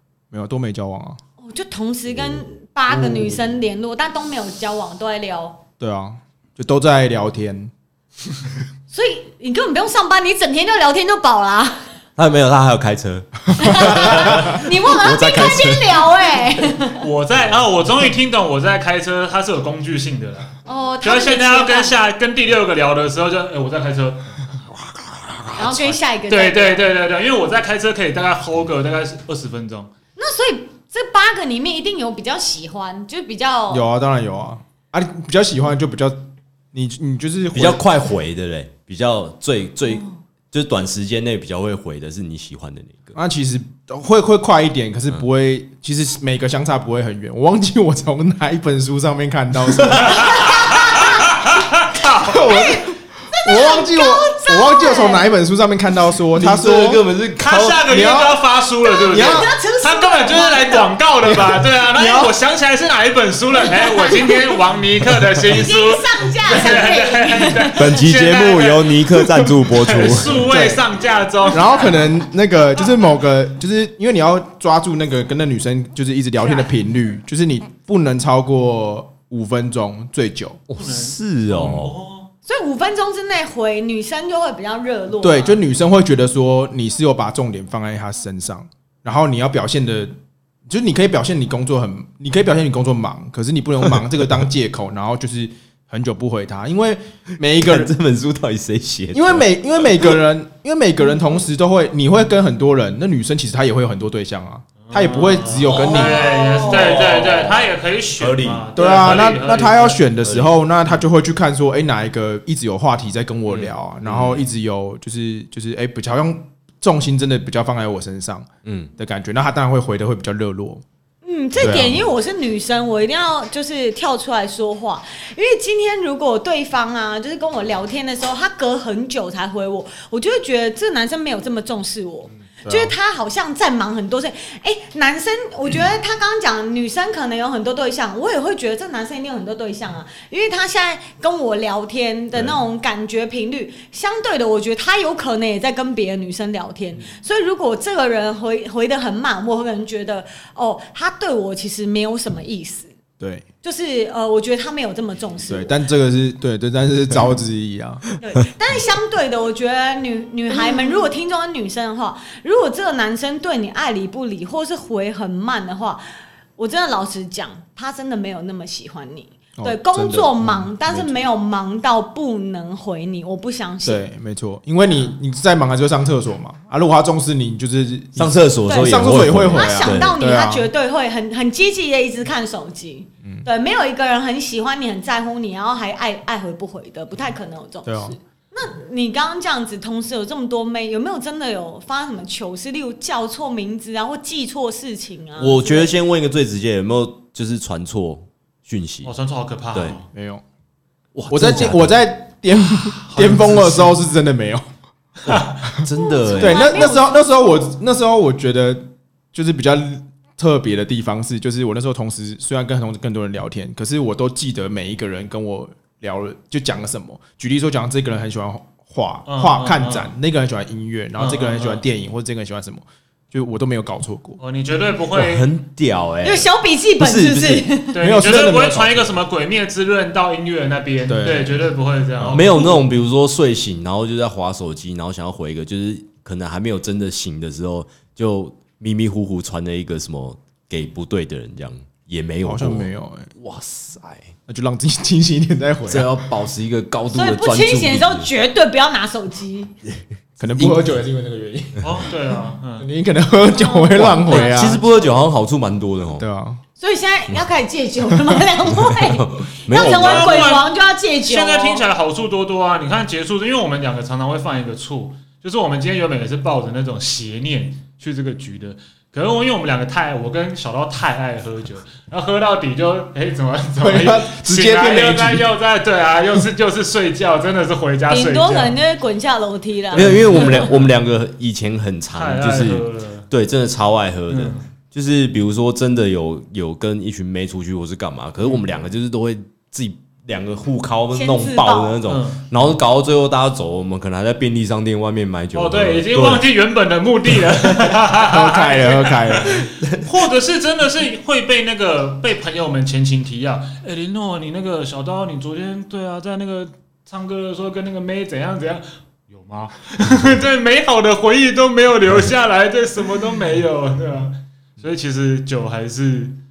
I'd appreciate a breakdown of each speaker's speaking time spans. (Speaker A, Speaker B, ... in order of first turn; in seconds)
Speaker A: 0.3-1.2, 5.8-7.7, 13.7-14.6, 33.7-37.8, 43.1-50.9, 52.2-57.0, 57.9-58.5, 59.1-59.5, 61.2-62.3, 70.3-70.9, 71.5-80.6, 85.2-90.2, 90.7-97.9, 99.1-106.3, 108.8-120.8, 121.6-122.1, 132.5-132.9, 153.2-153.5, 155.5-158.0, 169.6-171.2, 173.8-180.7, 187.8-188.2, 200.1-200.4, 201.3-204.7, 205.7-224.4, 228.0-229.2, 231.1-231.7, 232.2-232.4, 242.4-243.3, 244.5-246.1, 250.4-251.9, 252.8-254.8, 256.2-256.6, 273.8-275.5, 298.1-299.7
Speaker B: 1.4-5.6, 8.9-11.9, 13.6-17.0, 20.7-22.0, 25.5-26.9, 30.2-33.9, 50.3-51.0, 52.4-55.3, 58.9-60.9, 63.7-64.6, 65.5-67.8, 82.5-85.6, 105.7-107.0, 121.2-152.9, 153.6-155.8, 158.2-166.0, 166.6-174.1, 178.7-195.9, 206.0-207.6, 226.2-228.0, 247.1-249.7, 253.5-255.1, 256.8-261.8, 278.1-280.7, 291.1-292.0
Speaker C: 3.0-3.4, 12.2-16.1, 37.5-43.1, 56.3-57.9, 67.8-70.5, 80.7-82.0, 97.6-100.2, 106.7-109.0, 110.2-110.6, 113.5-114.4, 118.7-118.9, 178.2-180.1, 195.4-199.1, 201.2-202.0, 205.3-206.9, 225.1-227.7, 232.3-244.3, 245.9-248.3, 250.6-250.8, 253.9-256.2, 258.7-260.5, 279.9-296.4
Speaker D: 17.0-24.4, 25.6-29.9, 50.2-52.4, 57.4-71.9, 80.8-82.3, 104.8-110.0, 199.0-200.1, 202.7-204.0, 205.3-205.7, 219.3-220.1, 221.2-221.8, 224.4-225.5, 227.9-232.8, 251.8-252.9, 259.7-260.7, 261.2-278.8, 279.9-280.9, 282.1-283.3, 284.3-284.7, 292.1-292.5, 295.5-316.4